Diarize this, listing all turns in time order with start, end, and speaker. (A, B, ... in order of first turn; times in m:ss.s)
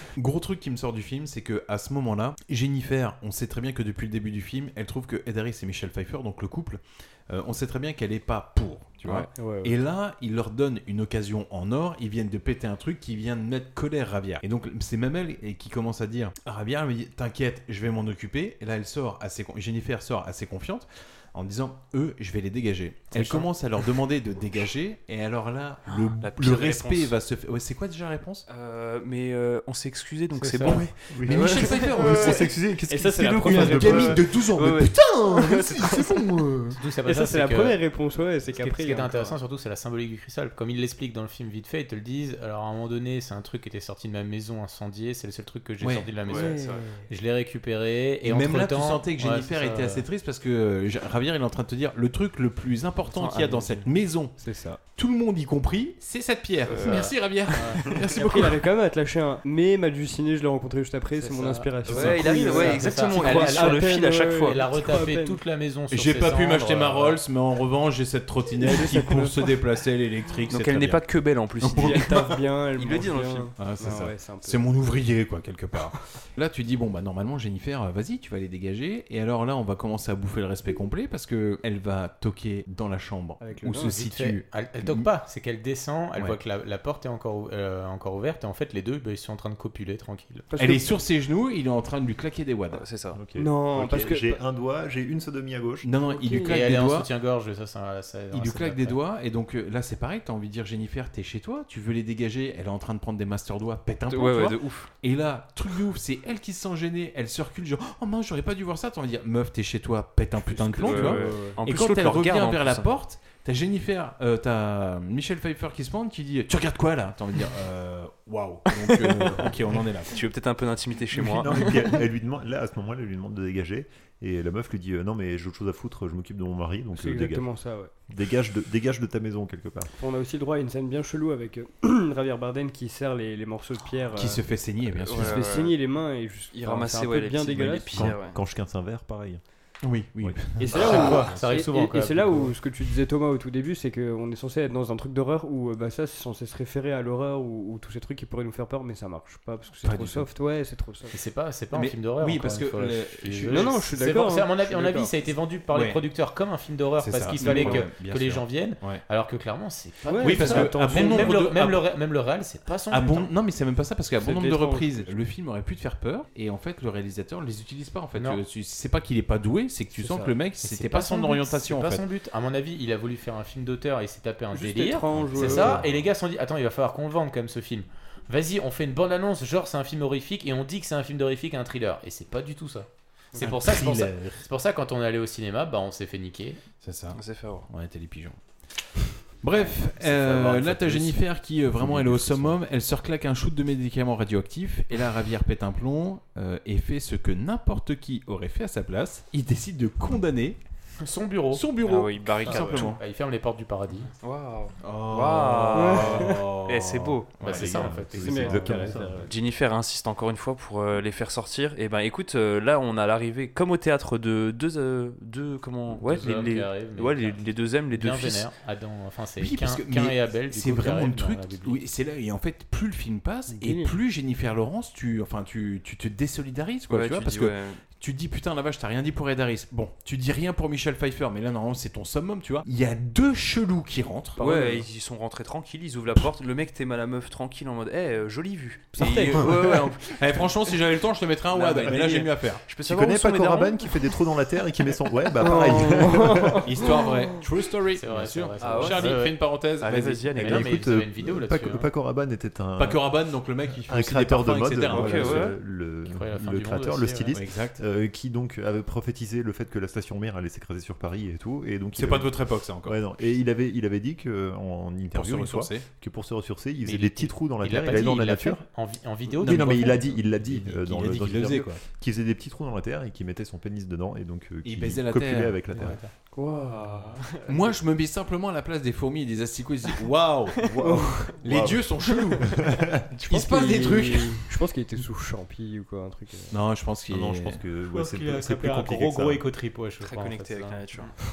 0:00.2-0:28.5 A
0:09.4-0:09.7 B
0:26.2-0:27.2 C
0:28.5-0:31.8 C
0:30.4-0:30.8 D
0:30.6-0:32.6 A
0:31.1-0:34.2 E
0:31.4-0:34.2 B
0:33.4-0:36.8 A
0:34.6-0:36.0 C
0:36.8-0:37.8 D
0:37.0-0:39.4 B
0:38.5-0:50.1 D
0:45.8-0:46.1 A
0:46.2-0:46.9 C
0:46.3-0:47.1 B
0:48.2-0:54.4 A
0:53.1-0:53.8 C
0:54.4-0:54.8 B
0:55.0-0:58.6 A
0:56.7-0:57.1 C
0:56.7-0:57.9 D
0:58.0-1:05.4 B
1:01.2-1:07.2 D
1:01.9-1:04.6 C
1:05.9-1:11.1 A
1:08.6-1:09.4 B
1:10.5-1:13.5 C
1:11.6-1:12.0 A
1:11.8-1:14.7 B
1:13.6-1:25.1 A
1:23.4-1:24.0 B
1:23.8-1:30.5 D
1:30.5-1:30.9 B
1:30.6-1:32.8 A
1:32.7-1:33.2 C
1:33.1-1:35.9 E
1:33.4-1:34.4 B
1:35.8-1:37.1 A
1:36.1-1:36.6 B
1:36.3-1:39.0 D
1:38.3-2:00.2 A
1:44.1-1:44.9 C
1:50.5-1:51.6 B
1:50.7-1:52.9 C
1:58.7-1:59.5 C
2:00.1-2:01.9 C
2:01.1-2:07.5 E
2:06.9-2:07.9 B
2:08.1-2:09.9 E
2:10.0-2:14.4 B
2:14.2-2:15.4 A
2:15.0-2:15.8 C
2:15.1-2:18.1 B
2:16.5-2:18.4 C
2:17.9-2:19.4 E
2:19.8-2:21.3 A
2:20.6-2:31.1 B
2:20.7-2:22.6 D
2:29.8-2:30.3 A
2:31.1-2:43.3 D
2:31.7-2:33.8 A
2:33.5-2:35.1 B
2:35.7-2:36.0 A
2:37.0-2:39.0 A
2:37.4-2:37.8 B
2:40.0-2:41.4 B
2:40.2-2:41.8 A
2:42.9-2:52.0 A
2:44.2-2:45.1 B
2:50.0-2:50.3 B
2:50.6-3:06.6 D
2:54.5-2:55.8 B
2:55.2-2:56.0 A
3:03.4-3:04.4 A
3:06.8-3:20.6 A
3:07.1-3:07.7 C
3:09.6-3:11.2 D
3:11.8-3:12.5 E
3:21.0-3:21.8 D
3:21.5-3:23.0 A
3:21.8-3:22.9 C
3:22.4-3:24.1 D
3:24.2-3:27.4 C
3:24.8-3:28.0 A
3:25.7-3:26.4 B
3:27.4-3:29.1 D
3:27.4-3:29.3 E
3:28.2-3:29.1 B
3:29.2-3:38.5 C
3:35.9-3:41.8 D
3:39.4-3:54.7 A
3:43.5-3:43.9 B
3:46.9-3:47.8 C
3:54.4-4:00.5 C
3:54.4-3:54.8 B
3:58.9-3:59.6 B
3:59.4-4:02.7 A
4:01.5-4:04.0 C
4:02.9-4:06.6 E
4:05.4-4:06.6 B
4:06.6-4:10.6 A
4:08.0-4:09.6 D
4:08.6-4:09.3 C
4:09.8-4:10.8 C
4:10.4-4:11.9 D
4:10.4-4:13.1 E
4:12.8-4:15.5 A
4:13.9-4:28.6 E
4:14.9-4:15.6 C
4:16.1-4:17.4 D
4:17.3-4:17.8 A
4:22.0-4:23.0 A
4:25.1-4:25.9 A
4:26.8-4:30.8 D
4:29.4-4:36.0 E
4:29.4-4:30.0 A
4:30.8-4:31.8 A
4:34.6-4:36.0 A
4:35.8-4:36.1 D
4:36.4-4:37.0 B
4:36.6-4:37.4 C
4:37.5-4:40.6 A
4:40.6-4:42.9 E
4:40.8-4:41.2 B
4:41.4-4:42.6 A
4:43.2-4:44.5 A
4:43.3-4:46.6 B
4:46.5-4:47.6 A
4:47.1-4:49.4 E
4:47.9-4:51.1 D
4:50.0-4:51.2 C